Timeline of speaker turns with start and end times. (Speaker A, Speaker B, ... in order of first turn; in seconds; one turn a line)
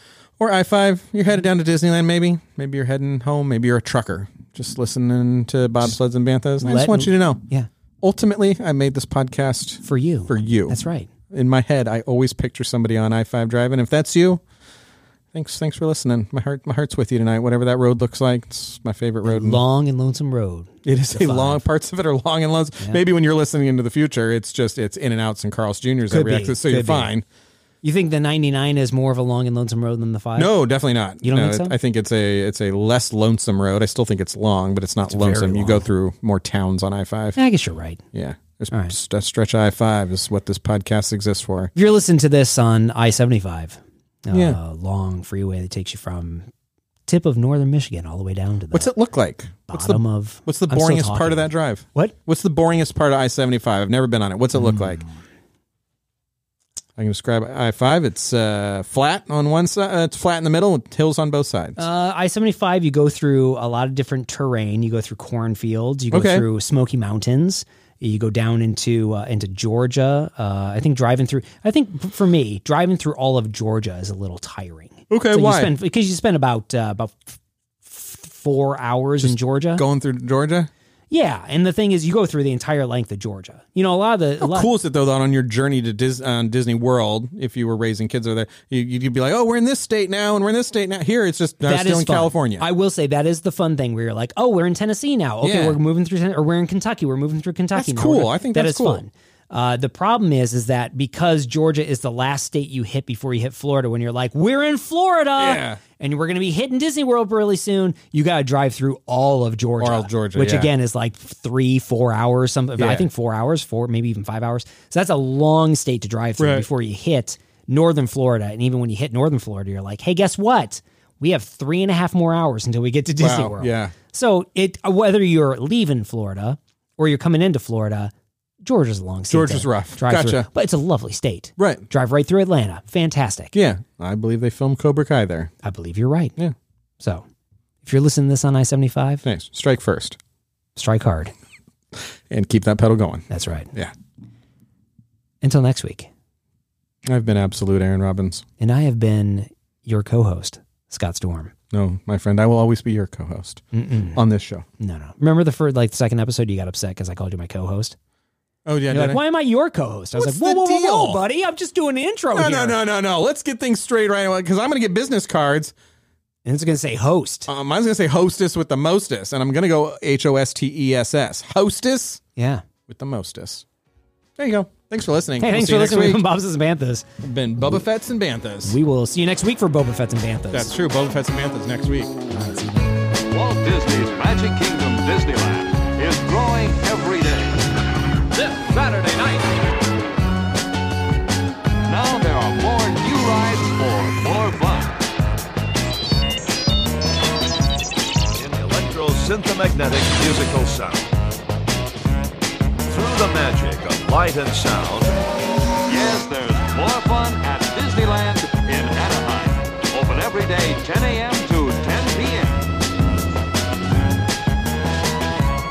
Speaker A: 0.4-7.4
Speaker B: 6.6-7.7
Speaker A: 8.0-10.8
Speaker B: 9.8-11.1
Speaker A: 11.3-14.4
Speaker A: 15.3-19.6
Speaker B: 19.2-21.6
Speaker A: 20.8-27.2
Speaker B: 26.1-27.1
Speaker B: 27.8-30.5
Speaker A: 30.4-37.4
Speaker B: 31.2-31.7
Speaker B: 35.1-35.9
Speaker B: 37.4-38.0
Speaker A: 38.1-41.7
Speaker B: 41.7-46.5
Speaker A: 44.3-44.6
Speaker B: 47.1-48.9
Speaker A: 48.7-55.0
Speaker B: 49.7-52.1
Speaker B: 54.6-55.0
Speaker A: 57.0-61.8
Speaker B: 61.8-77.3
Speaker A: 66.1-66.5
Speaker A: 75.1-75.7
Speaker B: 77.8-79.8
Speaker A: 79.2-80.7
Speaker B: 81.1-84.7
Speaker A: 84.4-92.7
Speaker B: 91.6-128.1
Speaker A: 95.4-95.8
Speaker A: 97.7-99.0
Speaker A: 105.4-105.8
Speaker A: 109.8-110.7
Speaker A: 112.8-113.1
Speaker A: 116.4-116.7
Speaker A: 123.1-123.9
Speaker B: 128.6-133.5
Speaker A: 129.3-130.5
Speaker A: 131.6-131.8
Speaker A: 133.5-135.5
Speaker B: 135.6-136.3
Speaker B: 137.8-139.2
Speaker A: 139.2-140.2
Speaker B: 140.8-141.3
Speaker A: 141.9-143.9
Speaker B: 143.3-143.7
Speaker B: 145.4-146.1
Speaker A: 147.1-148.4
Speaker B: 148.6-151.5
Speaker A: 151.7-153.6
Speaker B: 153.7-154.2
Speaker A: 154.1-154.7
Speaker B: 154.8-157.9
Speaker A: 158.7-159.2
Speaker B: 158.9-162.8
Speaker A: 160.1-161.2
Speaker A: 162.3-165.7
Speaker B: 166.4-167.5
Speaker A: 167.5-172.2
Speaker B: 172.3-172.6
Speaker A: 172.9-173.6
Speaker A: 174.4-176.2
Speaker B: 175.4-177.1
Speaker A: 177.2-178.8
Speaker B: 178.7-180.7
Speaker A: 180.5-182.1
Speaker B: 182.3-182.8
Speaker C: 183.3-187.6
Speaker C: 188.3-189.5
Speaker C: 191.8-195.0
Speaker D: 198.3-201.1
Speaker D: 202.8-205.1
Speaker C: 205.8-212.6